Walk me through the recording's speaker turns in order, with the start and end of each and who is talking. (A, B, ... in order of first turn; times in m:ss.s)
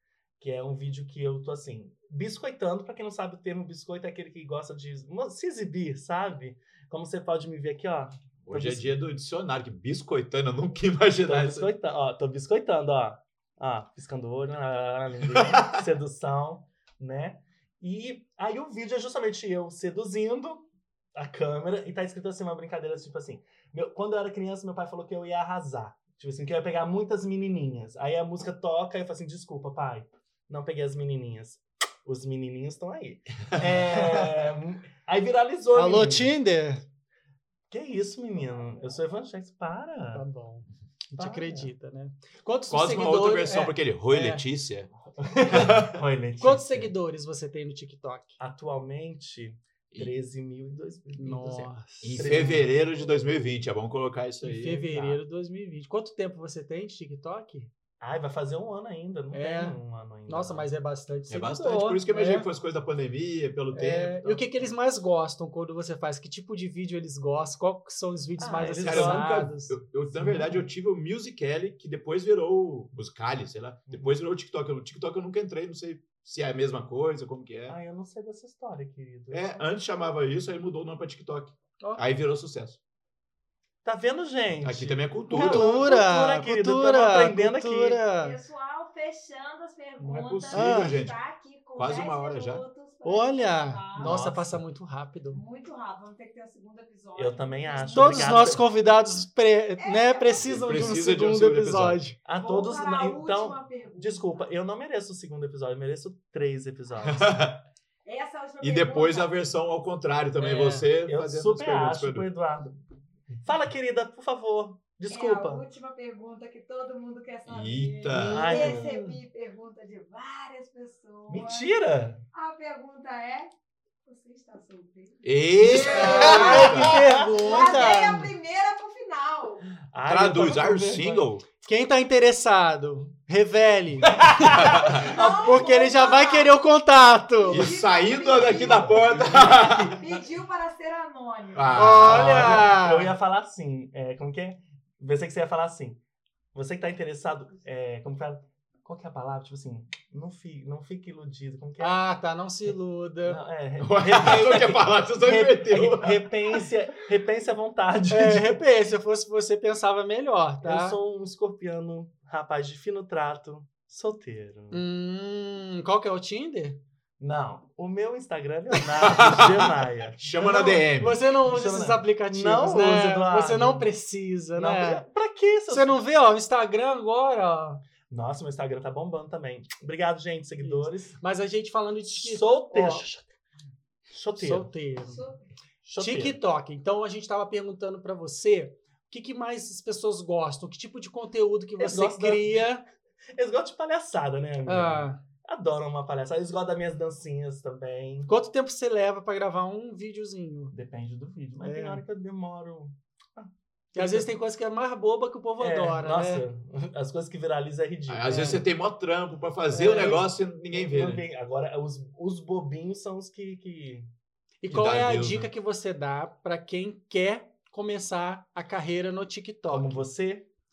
0:00.4-0:09.0 A
0:08.4-0:11.7 B
0:11.2-0:36.4 A
0:33.6-0:34.0 B
0:35.7-0:36.8 C
0:37.7-0:40.3 A
0:40.1-0:44.4 C
0:41.2-0:41.7 A
0:42.7-0:44.9 B
0:45.2-0:46.9 A
0:45.5-0:46.0 B
0:46.4-0:48.4 C
0:48.4-0:52.8 A
0:51.2-0:52.6 C
0:52.0-0:54.9 B
0:54.4-0:57.7 C
0:54.9-0:55.2 A
0:58.0-1:00.7 A
0:59.3-1:02.5 C
1:01.3-1:04.5 B
1:03.7-1:09.8 C
1:08.4-1:09.5 A
1:08.8-1:17.8 B
1:10.1-1:10.6 A
1:17.7-1:19.7 A
1:19.3-1:22.8 B
1:23.8-1:28.0 A
1:24.6-1:25.8 B
1:25.3-1:28.4 C
1:28.2-1:34.2 D
1:30.0-1:31.2 B
1:30.5-1:31.0 C
1:31.8-1:32.6 B
1:33.0-1:35.4 C
1:34.0-1:34.6 A
1:35.3-1:38.7 D
1:37.2-1:38.6 A
1:37.9-1:42.2 C
1:39.8-1:41.0 D
1:40.4-1:42.0 B
1:42.2-1:47.4 A
1:42.4-1:44.5 D
1:47.0-1:47.6 B
1:48.0-1:49.4 D
1:48.6-1:52.3 B
1:50.4-1:50.9 C
1:51.0-1:52.8 A
1:53.4-1:55.7 A
1:55.1-2:01.7 D
1:57.5-1:58.6 B
1:58.1-1:59.2 C
1:58.3-1:58.9 A
2:01.3-2:02.2 A
2:02.3-2:03.5 D
2:04.0-2:09.7 D
2:05.2-2:07.0 B
2:05.6-2:08.3 C
2:05.7-2:07.6 A
2:09.9-2:11.3 A
2:10.1-2:11.4 B
2:11.6-2:17.7 C
2:14.1-2:15.6 A
2:14.6-2:15.0 B
2:14.9-2:16.6 D
2:17.4-2:22.0 D
2:17.5-2:20.2 B
2:18.4-2:19.9 A
2:21.5-2:22.8 B
2:21.7-2:23.1 C
2:22.0-2:26.0 A
2:26.5-2:32.0 A
2:31.8-2:33.4 C
2:33.3-2:38.6 A
2:33.8-2:36.3 B
2:38.1-2:41.0 C
2:40.6-2:44.8 A
2:44.7-2:46.8 C
2:47.2-2:53.9 A
2:49.0-2:51.2 B
2:51.0-2:55.0 C
2:54.6-2:56.0 A
2:55.7-2:57.8 C
2:58.1-3:01.2 A
3:00.6-3:03.0 C
3:02.2-3:03.3 A
3:04.1-3:04.7 A
3:04.4-3:05.2 C
3:05.0-3:05.5 D
3:05.8-3:06.4 A
3:06.0-3:12.9 C
3:11.8-3:12.6 A
3:13.3-3:18.3 A
3:14.7-3:15.2 C
3:18.3-3:20.7 C
3:20.7-3:24.3 A
3:21.6-3:22.0 C
3:24.0-3:26.5 C
3:25.6-3:28.6 A
3:28.1-3:31.2 B
3:29.7-3:30.2 C
3:29.8-3:34.1 A
3:34.6-3:39.9 C
3:34.7-3:35.5 B
3:39.7-3:40.5 A